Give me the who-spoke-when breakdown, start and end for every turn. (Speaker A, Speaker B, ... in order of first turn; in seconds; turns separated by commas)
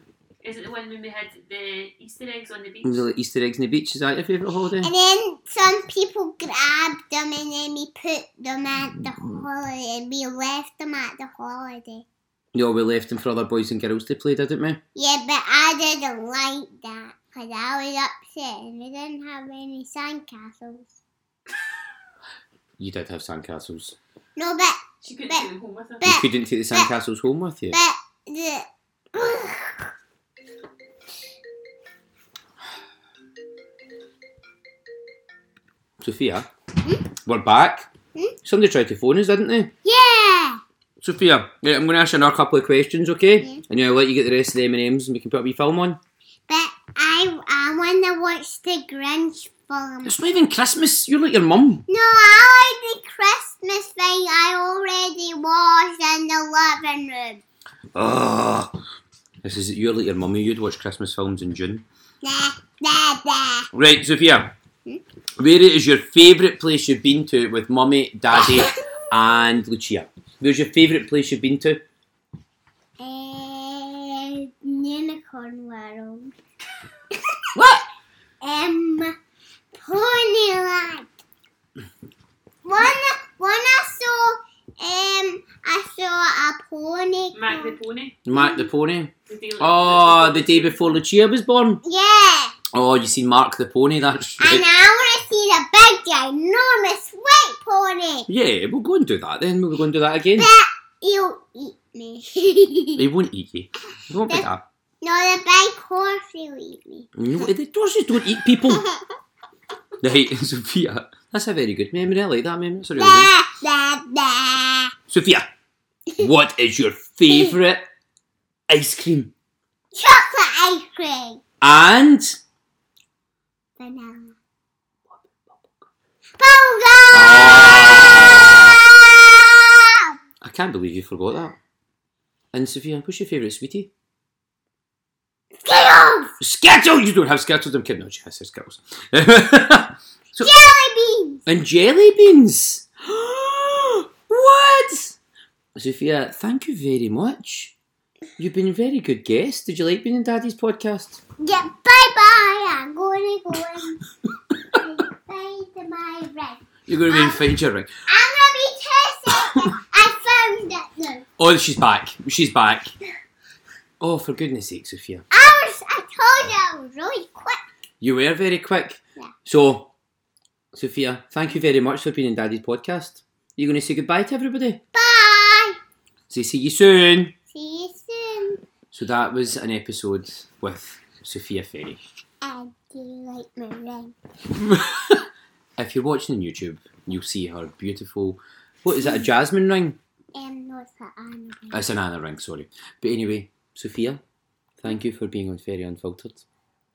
Speaker A: 0.4-3.1, Speaker B: 2.8-4.9, Speaker C: 4.8-12.1, Speaker B: 12.5-14.8, Speaker C: 14.9-21.0, Speaker B: 22.8-24.0, Speaker C: 24.4-25.5, Speaker A: 25.0-26.2, Speaker C: 26.0-26.9, Speaker B: 26.0-27.8, Speaker C: 27.7-29.9, Speaker B: 36.0-36.5, Speaker B: 37.2-37.9, Speaker B: 38.5-39.7, Speaker C: 39.8-40.6, Speaker B: 41.0-46.0, Speaker C: 46.5-50.1, Speaker B: 50.0-51.9, Speaker C: 51.9-57.4, Speaker B: 58.0-58.7, Speaker B: 59.4-61.9, Speaker C: 62.2-63.7, Speaker B: 63.7-64.5, Speaker B: 65.4-71.8, Speaker C: 68.4-69.0, Speaker C: 73.0-76.3, Speaker C: 77.1-77.4, Speaker B: 77.6-77.8, Speaker C: 78.4-79.1, Speaker C: 79.8-81.1, Speaker C: 82.6-87.8, Speaker A: 87.3-88.2, Speaker B: 88.3-91.8, Speaker C: 88.3-88.7, Speaker A: 89.3-91.0, Speaker C: 91.8-92.6, Speaker B: 92.7-94.7, Speaker C: 94.4-98.3, Speaker B: 98.3-100.5, Speaker C: 100.4-103.1, Speaker B: 103.0-104.6, Speaker C: 105.0-107.1, Speaker B: 107.2-108.8, Speaker B: 110.0-113.3, Speaker C: 113.0-114.9, Speaker B: 115.1-115.5, Speaker B: 116.2-117.8, Speaker B: 118.7-119.3, Speaker C: 119.9-121.4, Speaker B: 121.6-122.4, Speaker C: 123.8-124.4, Speaker B: 125.1-125.9, Speaker C: 126.4-130.1, Speaker B: 127.1-128.8, Speaker B: 130.4-131.6, Speaker B: 132.5-133.9, Speaker C: 135.6-136.3, Speaker B: 136.4-140.6, Speaker C: 140.4-141.4, Speaker B: 141.5-145.2, Speaker B: 145.8-147.8, Speaker B: 148.4-151.2, Speaker C: 151.4-154.1, Speaker C: 154.6-157.5, Speaker B: 156.9-157.9, Speaker C: 158.1-161.3, Speaker B: 161.4-162.9, Speaker B: 164.0-165.2, Speaker C: 165.3-167.6, Speaker B: 168.0-169.9, Speaker B: 170.7-174.8, Speaker C: 174.9-175.8, Speaker B: 176.3-177.3, Speaker C: 177.5-178.6, Speaker B: 178.9-182.0, Speaker C: 182.4-184.2, Speaker B: 184.6-185.2, Speaker B: 185.8-190.0, Speaker C: 190.3-191.8, Speaker B: 191.7-194.2, Speaker B: 194.8-196.4